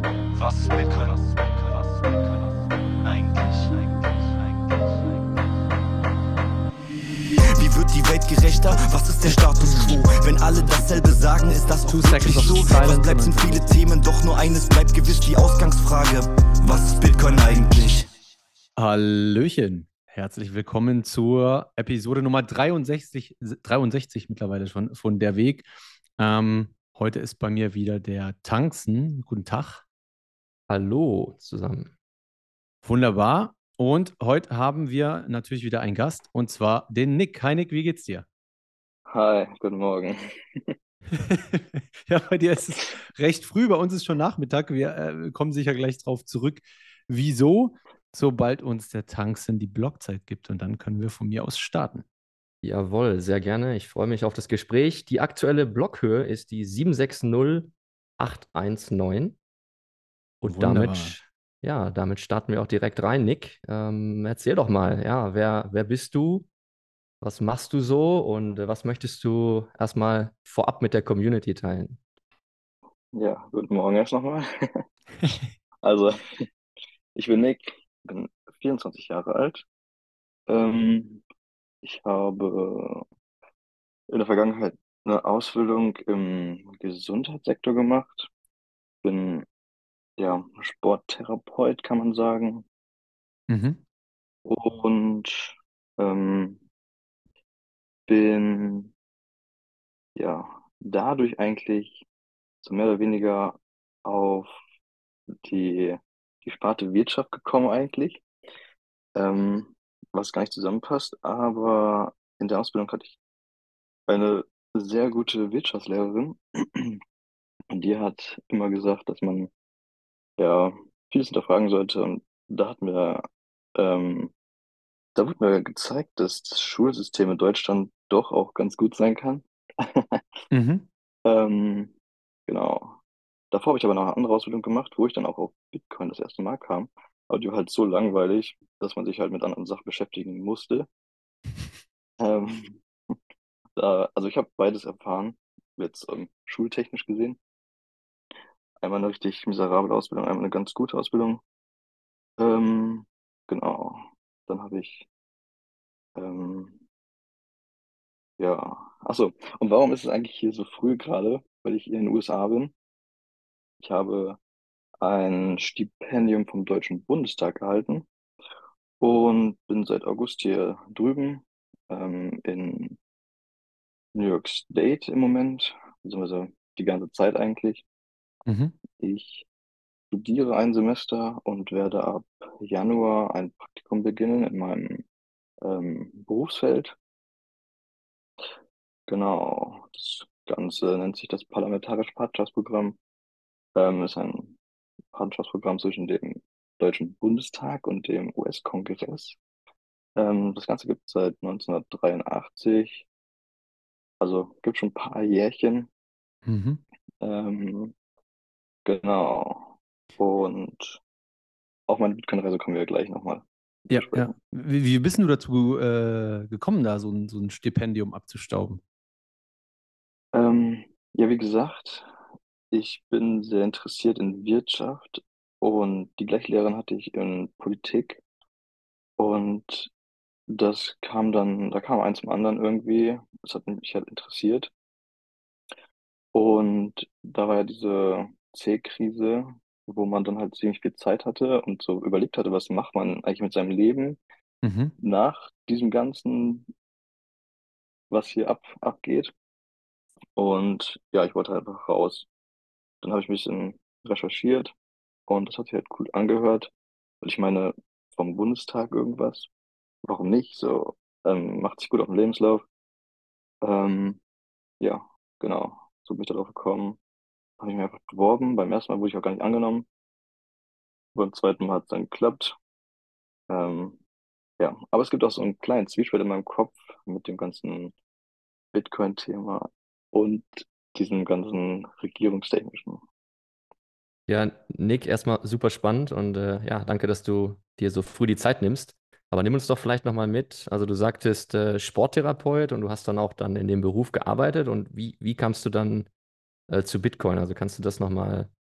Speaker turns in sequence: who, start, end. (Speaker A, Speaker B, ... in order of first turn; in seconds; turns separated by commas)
Speaker A: 0.3-5.0, Speaker A: 7.5-18.1, Speaker B: 9.3-11.3, Speaker B: 11.9-13.8, Speaker B: 18.8-25.6, Speaker B: 26.2-29.8, Speaker C: 30.7-31.9, Speaker B: 32.8-38.2, Speaker D: 39.1-40.8, Speaker B: 41.1-52.0, Speaker C: 52.6-59.4, Speaker C: 60.4-66.5, Speaker B: 60.5-61.1, Speaker C: 67.2-72.0, Speaker D: 73.1-74.8, Speaker D: 75.8-76.5, Speaker D: 77.2-79.7, Speaker D: 80.5-81.2, Speaker D: 81.8-83.0, Speaker D: 84.1-88.3, Speaker D: 89.0-89.5, Speaker D: 90.2-92.7, Speaker B: 93.5-93.8, Speaker D: 94.5-96.6, Speaker D: 98.1-98.9, Speaker D: 100.2-102.0, Speaker D: 102.6-104.5, Speaker D: 105.4-108.2, Speaker D: 109.2-113.2, Speaker D: 114.1-117.0, Speaker D: 117.7-119.5, Speaker D: 120.4-123.2, Speaker D: 123.8-124.3, Speaker D: 125.2-130.2, Speaker B: 130.5-130.9, Speaker D: 131.3-131.9, Speaker D: 132.5-133.0, Speaker D: 133.5-140.9, Speaker D: 142.2-143.2, Speaker D: 143.8-147.4, Speaker D: 148.8-151.4, Speaker D: 152.4-155.1, Speaker D: 156.2-156.8, Speaker D: 158.4-162.7, Speaker D: 163.8-164.4, Speaker D: 165.0-168.1, Speaker D: 169.0-173.0, Speaker D: 174.2-177.8, Speaker B: 178.5-178.8, Speaker D: 179.0-179.5, Speaker D: 180.1-185.1, Speaker D: 185.6-187.0, Speaker D: 189.1-193.0, Speaker D: 193.8-194.6, Speaker D: 195.1-199.4, Speaker D: 200.2-203.1, Speaker D: 204.2-205.9, Speaker B: 206.5-206.8, Speaker D: 207.2-207.9, Speaker D: 208.8-211.0, Speaker D: 211.9-213.4, Speaker B: 213.9-218.8, Speaker D: 213.9-214.3, Speaker D: 220.3-222.1, Speaker D: 222.7-228.2, Speaker D: 229.2-229.9, Speaker D: 230.5-234.7, Speaker D: 236.3-244.2, Speaker B: 244.6-244.9, Speaker D: 245.0-246.7, Speaker D: 248.1-249.3, Speaker D: 250.4-252.3, Speaker D: 253.0-254.7, Speaker D: 255.3-256.7, Speaker D: 257.2-259.5, Speaker D: 260.0-262.6, Speaker D: 263.6-264.2, Speaker D: 264.8-267.0, Speaker D: 267.6-269.9, Speaker D: 271.1-272.6, Speaker D: 273.5-274.0, Speaker D: 274.6-277.9, Speaker D: 278.7-283.0, Speaker C: 284.3-296.1, Speaker C: 296.7-298.5